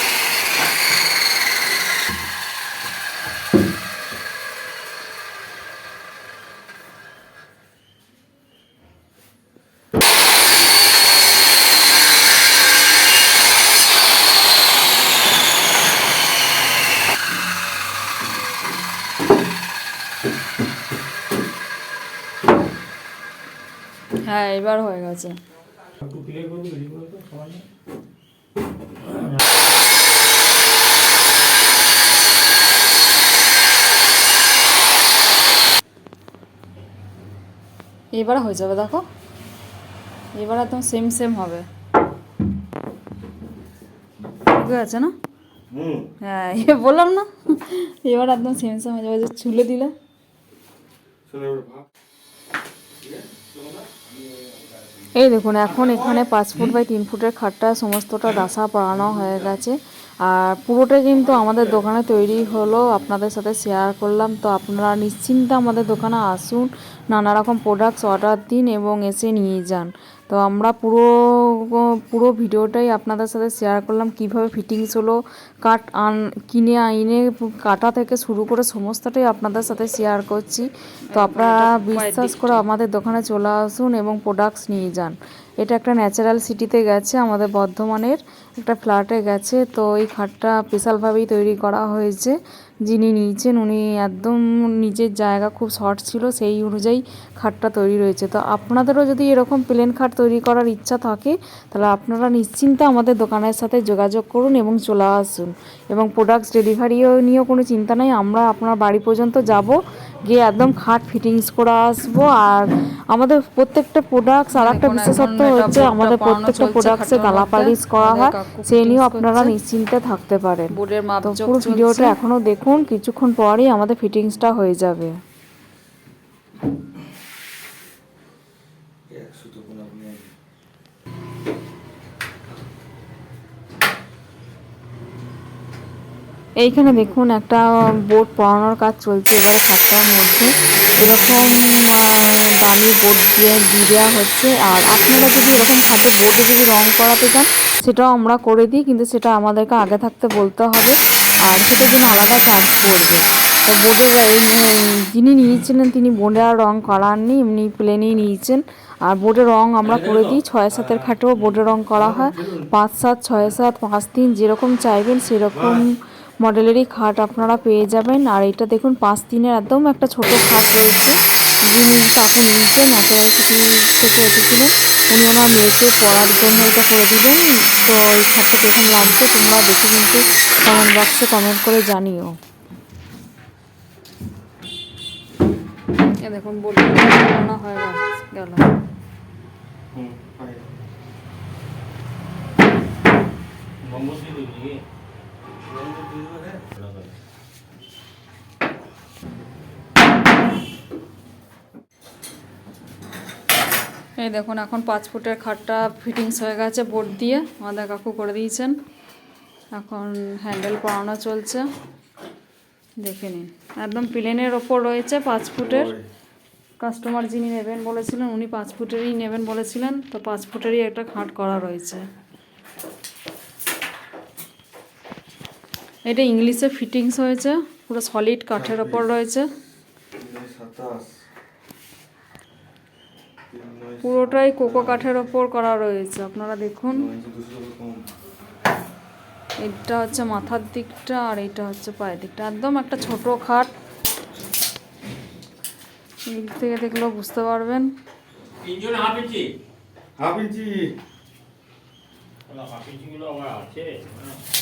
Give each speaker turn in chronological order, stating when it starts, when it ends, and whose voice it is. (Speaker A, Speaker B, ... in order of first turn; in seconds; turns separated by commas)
Speaker A: 24.2-25.4, Speaker B: 26.0-27.7, Speaker B: 29.1-29.4, Speaker A: 38.1-39.0, Speaker A: 40.4-41.7, Speaker A: 44.5-45.1, Speaker C: 45.7-46.1, Speaker A: 46.2-49.9, Speaker C: 51.3-51.9, Speaker C: 53.0-53.9, Speaker D: 55.1-120.7, Speaker A: 81.1-82.6, Speaker A: 114.5-119.5, Speaker A: 120.7-122.2, Speaker D: 121.2-125.2, Speaker C: 129.1-130.3, Speaker D: 136.6-171.2, Speaker B: 159.8-161.1, Speaker C: 161.9-162.6, Speaker C: 165.6-165.8, Speaker D: 171.7-182.4, Speaker A: 186.2-188.7, Speaker C: 189.9-190.7, Speaker B: 193.8-194.8, Speaker C: 195.7-196.6, Speaker B: 196.8-197.2, Speaker A: 204.2-208.8, Speaker A: 209.7-211.7, Speaker A: 213.0-215.9, Speaker C: 215.6-216.1, Speaker A: 216.8-222.1, Speaker A: 226.1-229.5, Speaker C: 228.5-229.1, Speaker C: 230.1-231.2, Speaker C: 233.5-235.1, Speaker A: 234.0-237.1, Speaker C: 236.9-238.1, Speaker A: 239.6-243.7, Speaker A: 246.3-247.9, Speaker B: 248.6-249.5, Speaker C: 250.2-250.9, Speaker B: 252.5-254.4